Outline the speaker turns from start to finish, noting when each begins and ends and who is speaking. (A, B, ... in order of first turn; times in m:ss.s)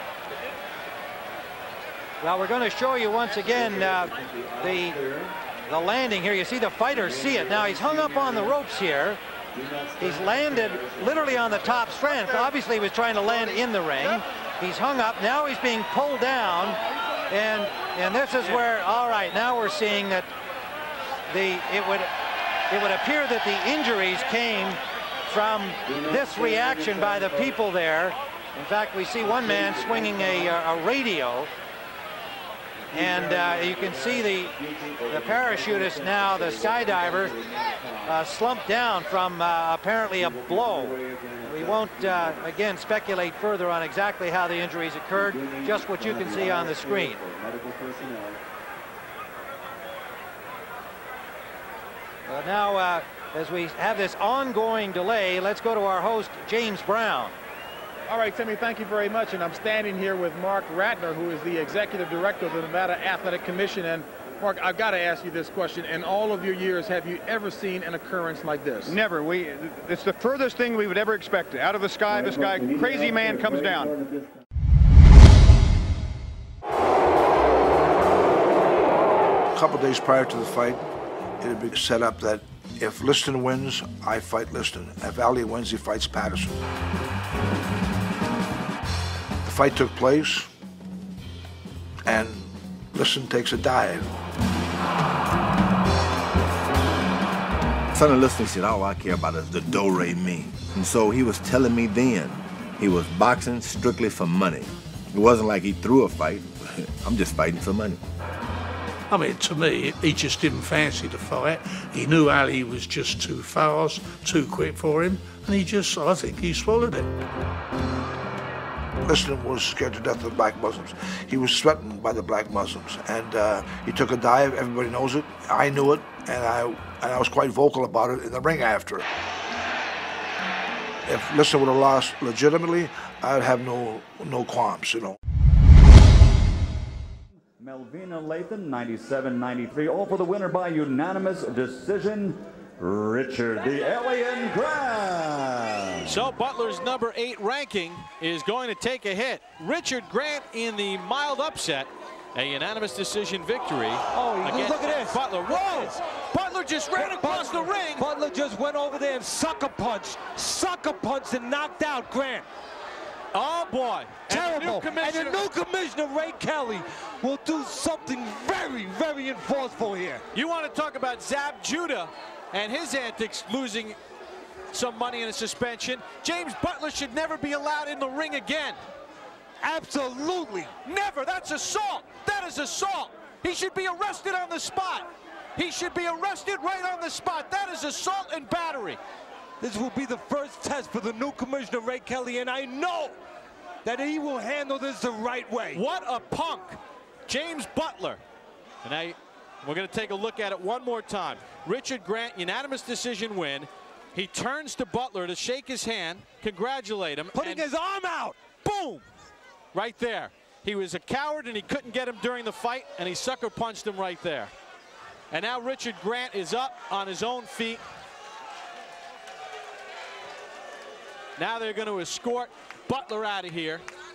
0:02.2-0:05.0 A
0:05.6-0:09.2 A
0:10.0-0:20.3 A
0:21.3-0:22.1 A
0:22.7-0:31.5 A
0:32.9-0:37.4 A
0:38.0-0:47.3 A
0:52.3-0:57.4 A
0:58.1-1:09.0 B
1:08.9-1:13.9 C
1:19.5-1:20.8 D
1:21.4-1:26.6 D
1:29.4-1:30.5 D
1:32.1-1:34.1 D
1:37.9-1:48.0 E
1:49.1-1:57.1 F
1:59.0-2:09.0 D
2:11.0-2:15.1 D
2:17.6-2:26.1 G
2:26.0-2:38.1 H
2:34.1-2:35.9 I
2:37.0-2:42.4 I
2:43.3-2:45.5 H
2:44.3-2:50.2 I
2:50.3-2:54.0 H
2:54.7-2:58.8 H
2:59.6-3:00.8 I
3:00.8-3:09.0 H
3:09.6-3:13.2 I
3:13.8-3:15.8 I
3:15.7-3:18.2 H
3:18.8-3:27.7 H
3:27.3-3:28.4 I
3:28.5-3:29.0 H
3:29.7-3:34.5 H
3:35.3-3:37.8 H
3:41.4-3:43.8 H